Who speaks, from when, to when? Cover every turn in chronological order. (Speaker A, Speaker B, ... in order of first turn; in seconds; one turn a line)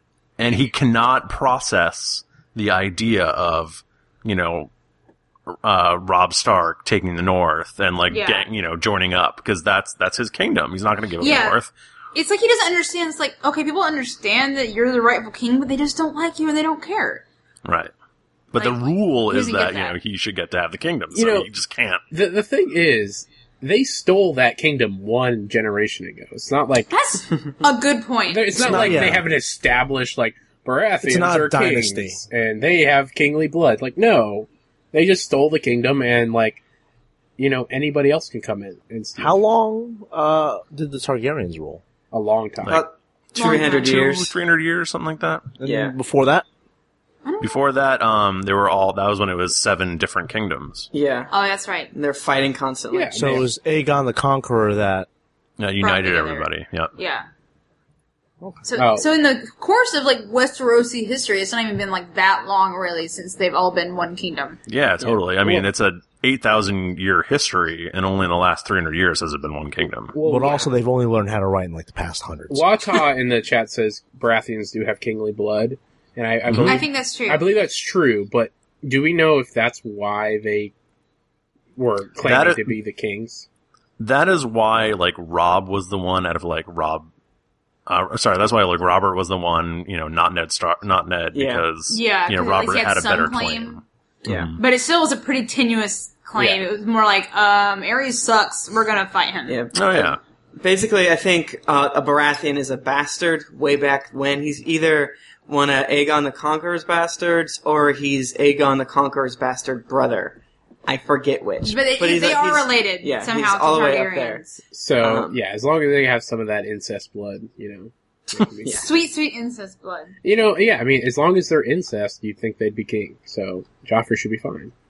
Speaker A: 0.4-4.7
Speaker A: 5.5-11.7
Speaker B: 8.1-8.5
Speaker B: 11.2-11.6
Speaker B: 12.1-17.2
Speaker A: 17.6-17.9
Speaker A: 18.5-22.0
Speaker B: 18.6-20.0
Speaker C: 21.1-21.5
Speaker C: 22.1-26.9
Speaker B: 26.9-29.1
Speaker C: 28.3-36.6
Speaker D: 28.6-29.2
Speaker D: 31.0-32.2
Speaker C: 37.4-39.4
Speaker D: 39.2-41.8
Speaker C: 42.1-42.8
Speaker A: 42.6-45.5
Speaker E: 42.7-44.3
Speaker B: 43.4-44.0
Speaker D: 45.6-46.5
Speaker E: 45.6-45.9
Speaker B: 47.2-47.6
Speaker A: 47.4-50.9
Speaker E: 50.9-51.3
Speaker B: 51.3-51.9
Speaker E: 51.9-53.4
Speaker C: 52.9-53.5
Speaker D: 53.1-55.1
Speaker A: 55.6-56.9
Speaker B: 55.8-57.3
Speaker B: 58.6-64.6
Speaker C: 58.8-59.1
Speaker A: 64.7-70.2
Speaker C: 70.1-70.8
Speaker D: 70.2-72.8
Speaker C: 72.5-80.7
Speaker A: 76.5-76.8
Speaker B: 76.7-77.5
Speaker C: 81.8-83.5
Speaker A: 82.2-82.7
Speaker A: 84.0-87.1
Speaker A: 87.9-94.6
Speaker E: 91.3-91.7
Speaker B: 91.9-93.8
Speaker E: 94.2-94.5
Speaker B: 94.6-99.6
Speaker E: 99.5-114.4
Speaker A: 99.7-100.2
Speaker B: 111.6-114.7
Speaker C: 114.7-118.9
Speaker E: 115.0-115.4
Speaker B: 118.7-120.2
Speaker C: 120.2-124.7